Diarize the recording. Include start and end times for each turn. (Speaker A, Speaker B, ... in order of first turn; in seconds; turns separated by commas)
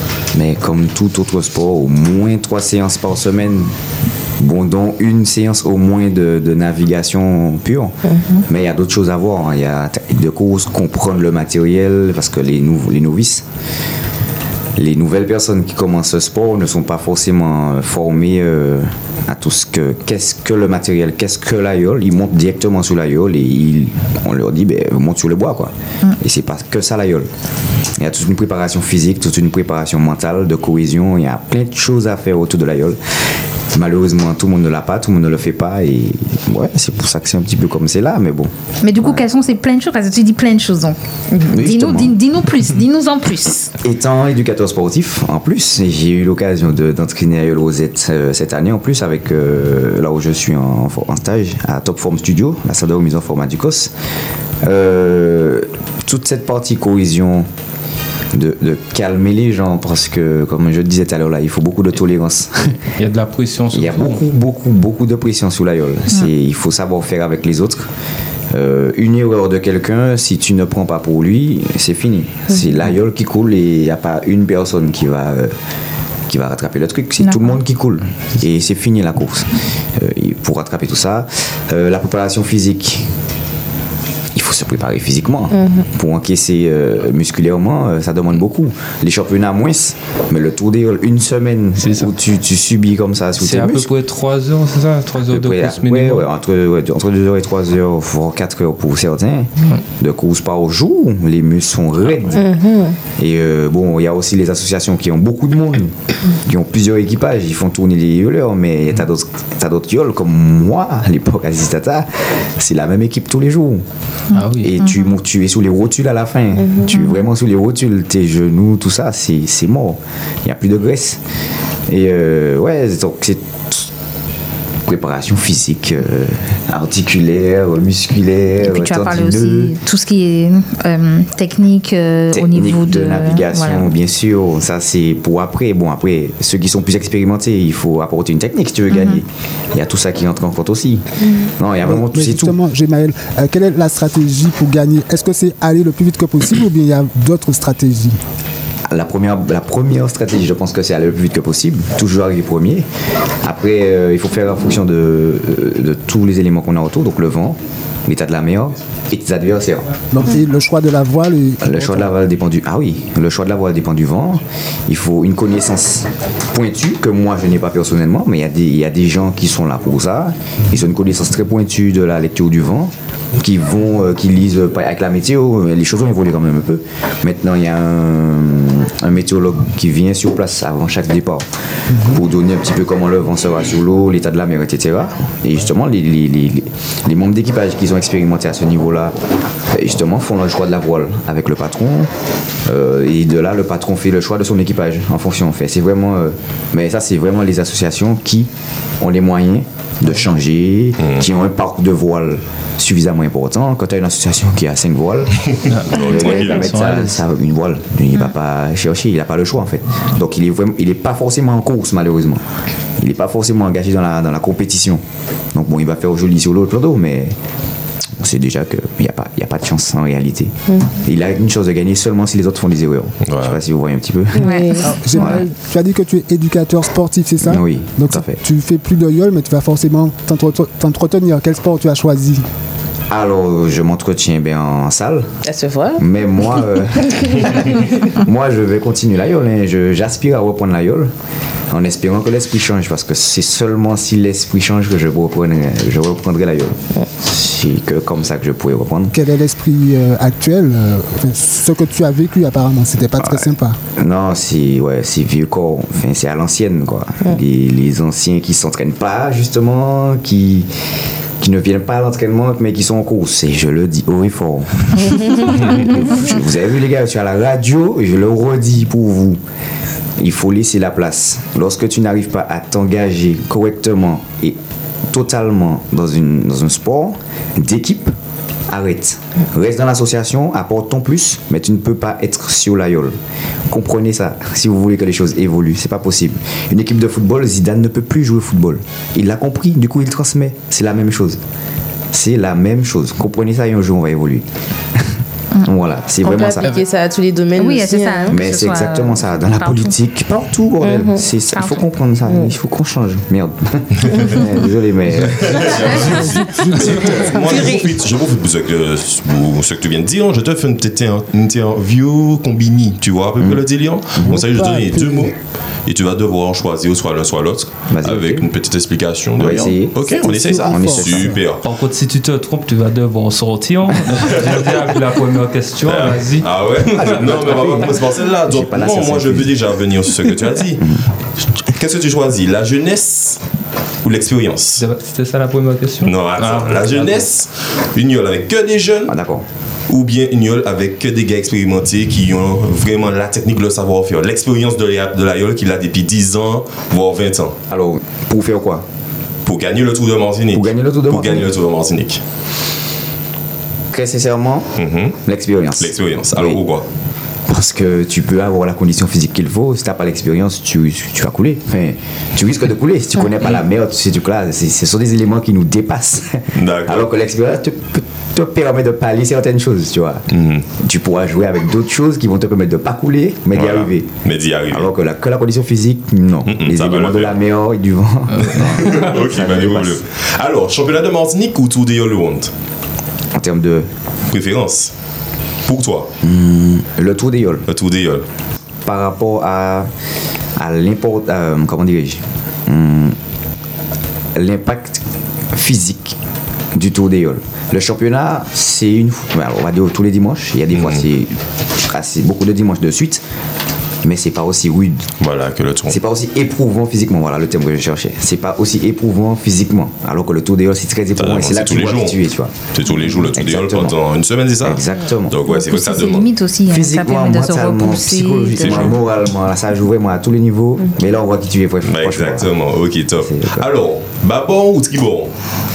Speaker A: 0.3-3.7, Speaker A: 4.4-13.4, Speaker A: 14.8-27.3, Speaker A: 28.0-33.0, Speaker A: 33.7-39.2, Speaker B: 38.8-43.7, Speaker A: 41.5-42.2, Speaker A: 43.8-53.9, Speaker A: 54.6-57.5, Speaker A: 58.3-62.8, Speaker C: 63.0-64.2, Speaker A: 63.7-67.9, Speaker A: 68.5-75.5, Speaker A: 76.3-83.1, Speaker B: 77.2-77.6, Speaker A: 84.3-93.9, Speaker C: 91.8-92.1, Speaker C: 93.4-96.2, Speaker A: 95.2-102.5, Speaker D: 102.3-103.0, Speaker A: 103.1-113.8, Speaker B: 114.3-115.1, Speaker C: 114.3-114.7, Speaker A: 114.6-121.2, Speaker B: 116.9-117.2, Speaker A: 121.9-123.9, Speaker A: 124.8-129.8, Speaker B: 128.6-133.9, Speaker A: 132.3-142.6, Speaker B: 138.9-139.2, Speaker E: 141.8-148.2, Speaker A: 148.9-152.9, Speaker A: 153.4-159.9, Speaker E: 160.1-162.1, Speaker A: 161.6-189.1, Speaker A: 189.7-192.1, Speaker A: 192.6-212.4, Speaker F: 205.4-206.6, Speaker C: 205.7-207.2, Speaker A: 213.0-215.0, Speaker A: 215.5-217.3, Speaker A: 218.2-224.6, Speaker F: 223.2-223.6, Speaker B: 224.3-225.3, Speaker D: 224.5-224.8, Speaker E: 224.8-232.4, Speaker A: 225.1-225.4, Speaker A: 227.4-228.4, Speaker A: 233.1-235.3, Speaker D: 235.4-236.0, Speaker A: 235.9-241.1, Speaker A: 241.7-249.1, Speaker E: 249.1-253.8, Speaker A: 253.2-260.7, Speaker A: 261.4-269.4, Speaker A: 270.2-274.6, Speaker A: 275.1-278.1, Speaker A: 278.7-283.1, Speaker A: 283.7-291.4, Speaker A: 292.1-296.8, Speaker D: 296.2-298.4, Speaker B: 297.5-299.9, Speaker A: 298.3-306.2, Speaker D: 300.8-301.2, Speaker B: 301.5-301.9, Speaker F: 304.0-304.3, Speaker F: 305.1-315.3, Speaker E: 314.3-315.3, Speaker F: 315.9-321.6, Speaker A: 317.9-318.5, Speaker A: 319.4-321.4, Speaker E: 320.2-321.4, Speaker C: 321.6-327.1, Speaker F: 324.2-324.6, Speaker F: 325.8-331.0, Speaker A: 326.9-329.6, Speaker A: 330.8-331.0, Speaker F: 331.6-333.4, Speaker F: 334.0-334.8, Speaker C: 334.8-337.3, Speaker F: 336.0-339.2, Speaker A: 339.1-339.4, Speaker F: 339.9-347.6, Speaker A: 347.7-348.9, Speaker F: 349.4-352.2, Speaker A: 350.5-351.5, Speaker A: 353.9-356.6, Speaker F: 354.8-355.2, Speaker F: 355.8-356.9, Speaker A: 357.5-374.2, Speaker F: 366.5-367.1, Speaker F: 370.3-370.6, Speaker F: 373.5-374.9, Speaker A: 374.7-380.0, Speaker F: 376.5-377.3, Speaker F: 378.4-382.5, Speaker A: 383.3-383.9, Speaker F: 384.3-384.9, Speaker F: 385.6-386.1, Speaker A: 386.2-387.6, Speaker F: 387.7-388.2, Speaker A: 388.8-389.9, Speaker A: 390.6-393.2, Speaker A: 394.3-396.2, Speaker A: 396.7-403.2, Speaker F: 400.7-401.1, Speaker A: 404.0-405.1, Speaker F: 405.2-406.0, Speaker A: 405.9-414.0, Speaker F: 411.2-412.2, Speaker F: 412.7-416.3, Speaker A: 414.6-415.4, Speaker B: 415.4-418.9, Speaker A: 416.7-422.5, Speaker F: 418.6-419.0, Speaker F: 421.8-425.3, Speaker A: 423.2-423.7